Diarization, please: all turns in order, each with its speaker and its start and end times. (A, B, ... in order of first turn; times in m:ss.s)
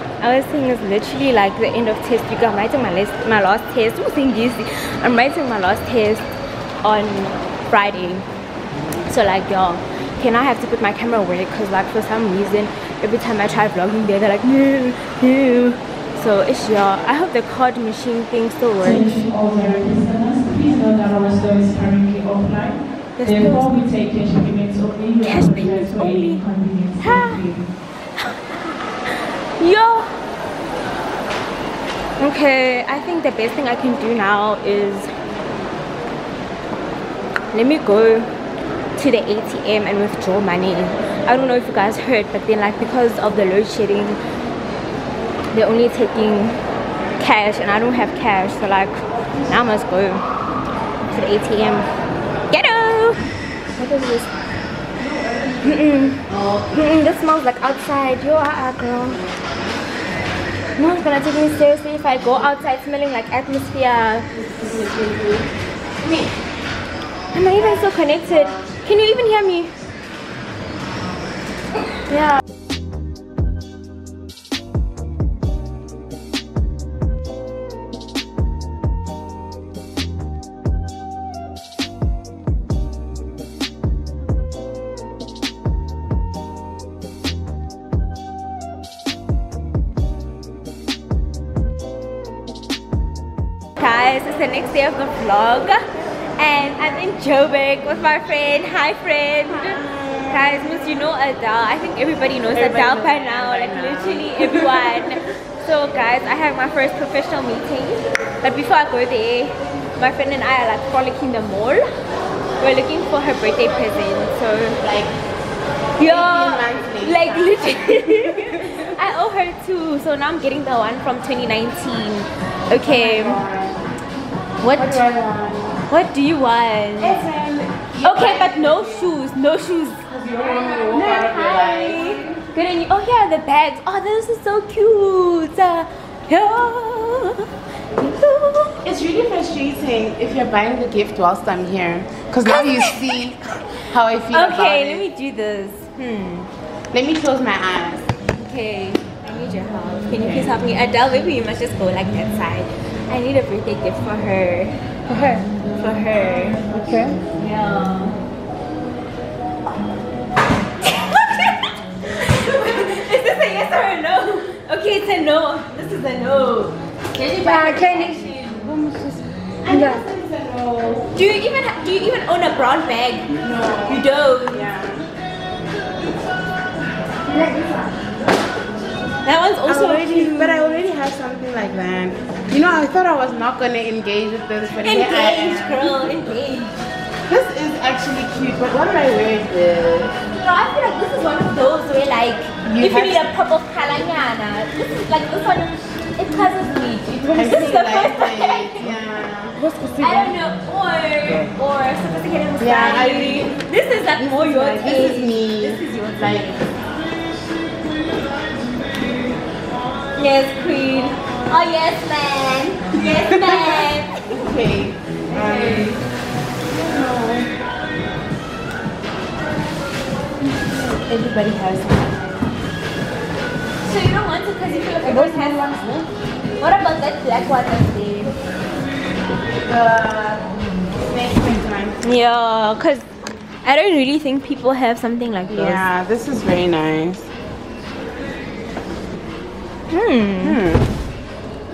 0:00.2-0:06.3 A
0:06.8-0:08.2 A
0:09.0-0:19.1 A
0:18.8-0:27.7 B
0:23.2-0:23.8 A
0:25.2-0:27.4 A
0:28.2-0:28.5 A
0:29.6-0:30.1 A
0:32.2-0:35.1 A
0:37.5-0:38.3 A
0:39.0-0:44.2 A
0:45.5-0:46.6 A
0:47.2-0:50.2 A
0:51.1-0:51.9 A
0:52.5-0:54.4 A
0:55.6-0:59.2 A
0:56.3-0:56.7 C
1:00.8-1:04.3 A
1:04.5-1:05.4 C
1:07.3-1:09.7 A
1:07.6-1:08.6 C
1:33.8-1:35.8 A
1:36.4-1:51.8 A
1:39.5-1:40.6 C
1:42.5-1:45.1 C
1:52.6-1:54.8 A
1:54.8-1:55.2 C
1:56.0-1:58.9 C
1:56.0-2:03.4 A
2:02.8-2:03.8 C
2:04.6-2:05.0 A
2:04.7-2:05.8 C
2:05.9-2:07.2 A
2:07.0-2:09.1 C
2:08.0-2:18.8 A
2:10.1-2:12.4 C
2:18.8-2:25.0 C
2:22.4-2:23.0 A
2:24.3-2:26.5 A
2:26.9-2:28.1 C
2:28.4-2:34.8 A
2:30.2-2:30.5 C
2:35.1-2:35.4 C
2:35.8-2:36.8 A
2:36.7-2:37.0 C
2:37.3-2:38.2 A
2:40.8-2:48.4 A
2:47.4-2:51.1 C
2:49.7-2:50.0 A
2:51.1-2:54.7 A
2:53.4-2:55.1 C
2:57.2-2:58.0 C
2:59.2-3:00.8 A
2:59.6-3:06.0 C
3:04.8-3:06.8 A
3:07.3-3:10.2 C
3:10.3-3:18.7 A
3:12.6-3:13.2 C
3:17.3-3:20.4 C
3:20.0-3:26.6 A
3:21.3-3:21.5 C
3:22.6-3:26.6 C
3:30.2-3:34.1 A
3:33.1-3:36.0 C
3:35.3-3:36.0 A
3:36.7-3:37.5 C
3:40.5-3:42.4 A
3:43.8-3:45.7 A
3:45.0-3:46.1 C
3:46.6-3:48.3 A
3:49.6-3:52.0 C
3:52.0-3:53.0 A
3:53.6-3:55.9 A
3:55.5-3:57.3 C
3:59.9-4:00.6 A
4:00.4-4:00.9 C